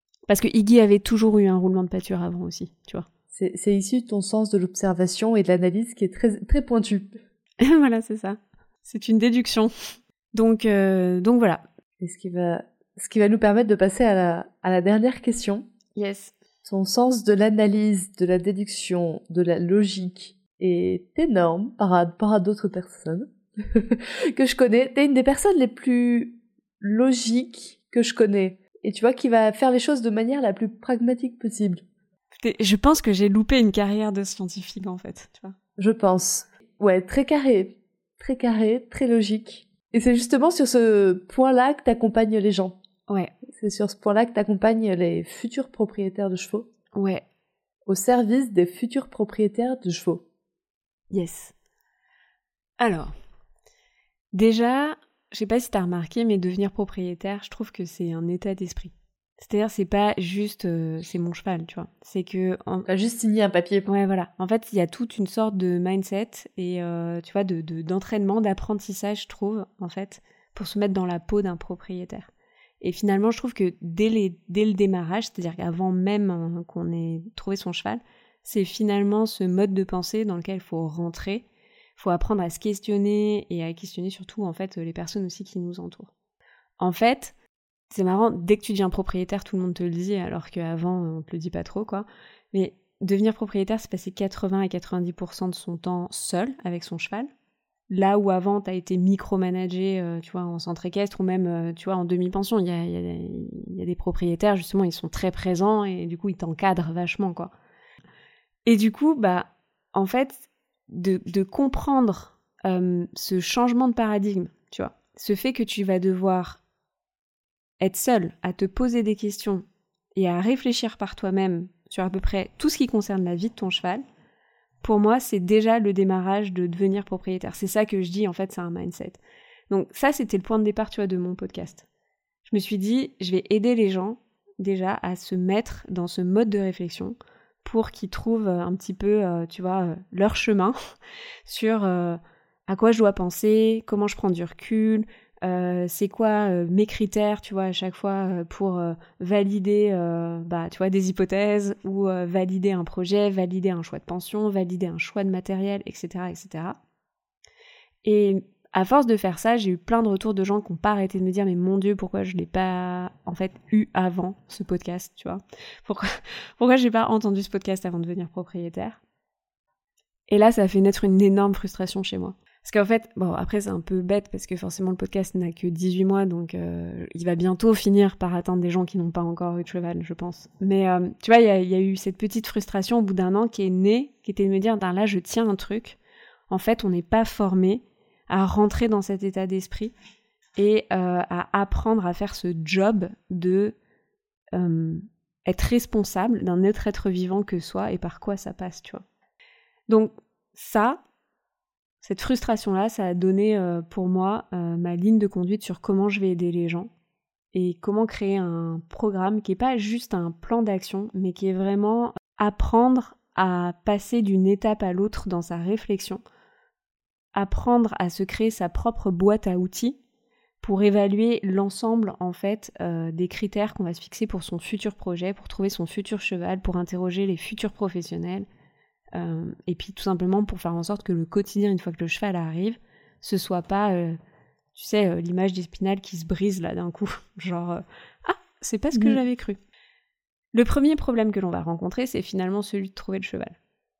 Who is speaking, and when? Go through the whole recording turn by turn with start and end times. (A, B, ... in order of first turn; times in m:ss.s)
0:00.3-0:03.1 A
0:03.3-0:07.1 B
0:07.6-0:11.6 A
0:12.0-0:15.6 B
0:16.0-0:16.3 A
0:16.6-0:31.8 B
0:32.4-0:35.6 A
0:35.8-0:42.8 B
0:43.1-0:43.3 A
0:43.5-0:46.7 B
0:46.9-0:47.2 A
0:47.9-0:50.2 B
0:51.1-0:51.5 A
0:52.8-0:53.1 A
0:54.3-1:02.9 A
1:02.8-1:03.8 B
1:03.8-1:12.3 A
1:12.8-1:21.4 A
1:22.0-1:26.1 A
1:26.8-1:27.3 A
1:27.9-1:37.3 A
1:37.9-1:47.5 A
1:48.6-1:56.6 A
1:57.8-1:59.6 A
2:00.2-2:04.0 A
2:04.8-2:11.8 A
2:12.5-2:20.8 A
2:21.4-2:36.8 A
2:38.0-2:49.0 A
2:50.3-3:06.0 A
3:06.5-3:09.9 A
3:10.6-3:13.7 A
3:14.5-3:19.0 A
3:19.9-3:21.0 A
3:22.0-3:26.9 A
3:27.5-3:36.2 A
3:37.3-3:40.0 A
3:40.6-3:48.4 A
3:49.1-3:54.2 A
3:54.7-3:59.6 A
3:58.9-3:59.2 B
4:00.5-4:03.6 A